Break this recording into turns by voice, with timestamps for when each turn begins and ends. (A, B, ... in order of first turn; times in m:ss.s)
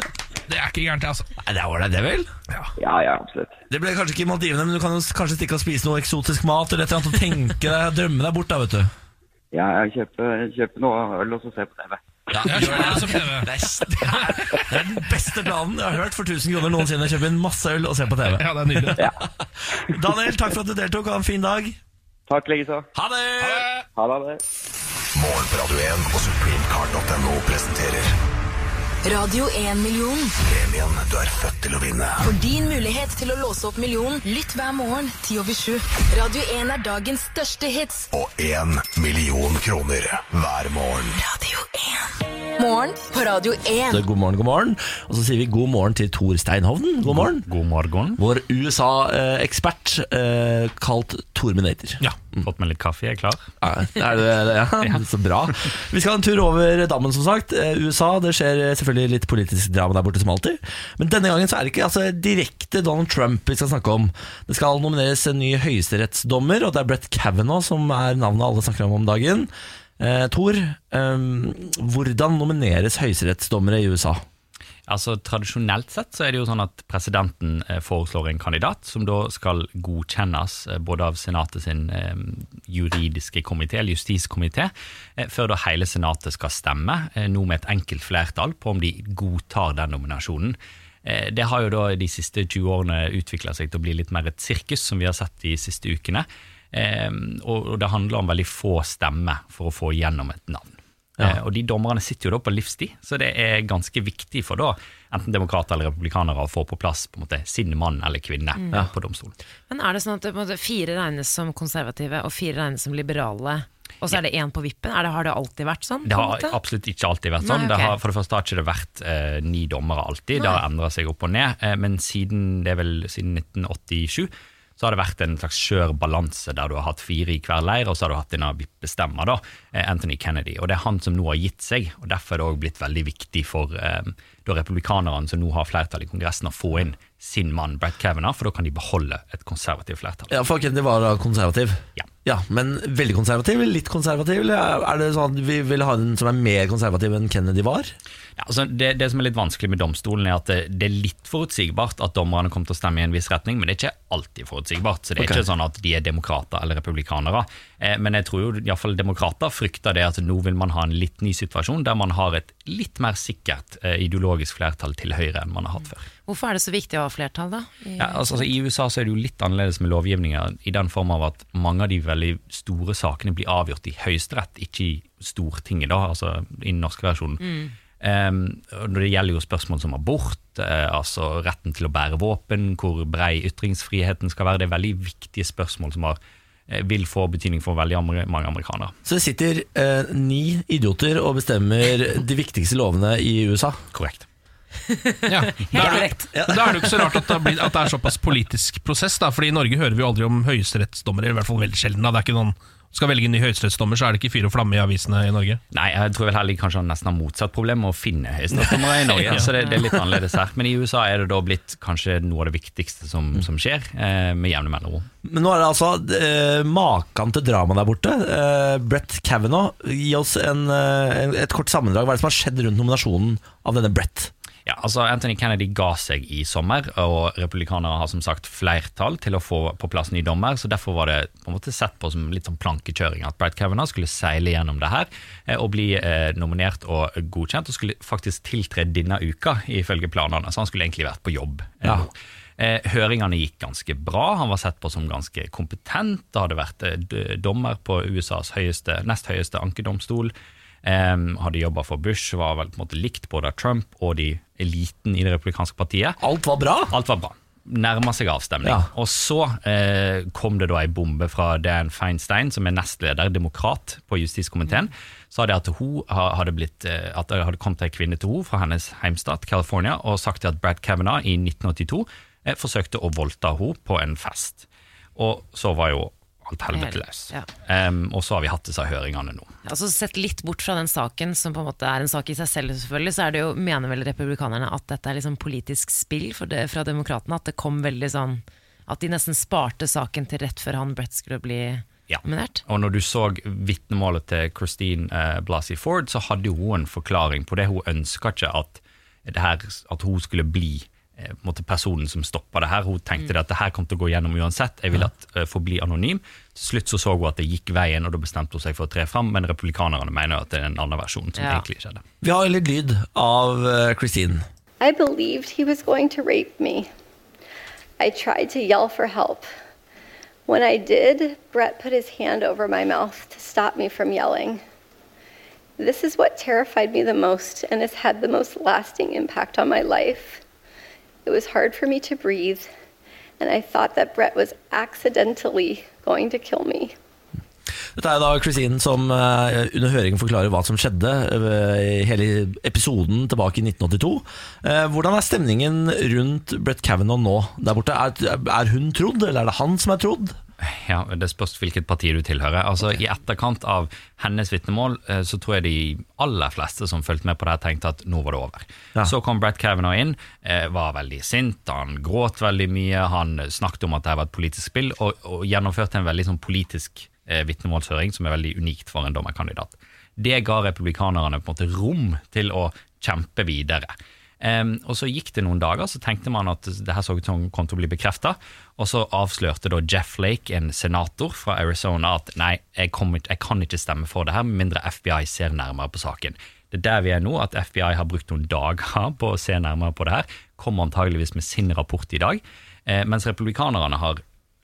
0:00.5-0:01.3 A
0:01.4-0:02.3 B
0:02.8-0:03.6 C
0:03.7-0:08.9 B
0:09.5-0:12.0 C
0:12.3-0:19.1 B
0:12.4-0:13.5 A
0:14.1-0:14.4 A
0:18.3-0:19.0 A
0:19.9-0:21.8 B
0:22.3-0:22.9 C
0:22.9-0:23.7 B
0:23.4-0:23.8 A
0:24.0-0:24.4 C
0:25.2-0:28.1 D
0:29.0-0:30.4 E
0:30.4-0:32.3 D
0:32.2-0:38.1 E
0:38.1-0:41.2 D
0:41.2-0:44.0 E
0:43.9-0:47.5 B
0:47.1-0:48.2 F
0:48.2-0:52.4 B
0:52.4-0:53.5 F
0:53.6-1:14.2 B
1:14.9-1:49.3 F
1:48.6-1:48.8 G
1:49.7-1:56.6 G
1:56.0-2:20.3 F
1:57.4-1:58.0 G
2:00.4-2:00.6 G
2:20.3-2:27.9 B
2:28.4-2:46.0 F
2:46.3-2:48.5 G
2:48.0-2:57.5 F
2:57.4-2:57.7 G
2:58.0-3:09.0 F
3:09.1-3:13.8 B
3:13.9-3:14.2 F
3:14.9-3:16.2 G
3:15.3-3:25.6 A
3:15.7-3:17.4 B
3:25.7-3:35.1 F
3:28.8-3:29.4 B
3:35.2-3:44.3 B
3:44.7-4:10.3 F
4:10.8-4:16.2 F
4:16.2-4:16.9 B
4:16.9-4:39.5 F
4:18.6-4:18.9 B
4:36.7-4:37.5 G
4:39.6-4:52.6 G
4:52.1-5:12.0 F
5:11.4-5:11.6 G
5:12.2-5:14.4 B
5:14.8-5:16.9 H
5:18.0-5:19.5 H
5:20.5-5:24.6 H
5:25.8-5:30.4 H
5:31.3-5:32.7 H
5:33.4-5:37.0 H
5:38.0-5:50.4 B
5:50.6-6:34.2 F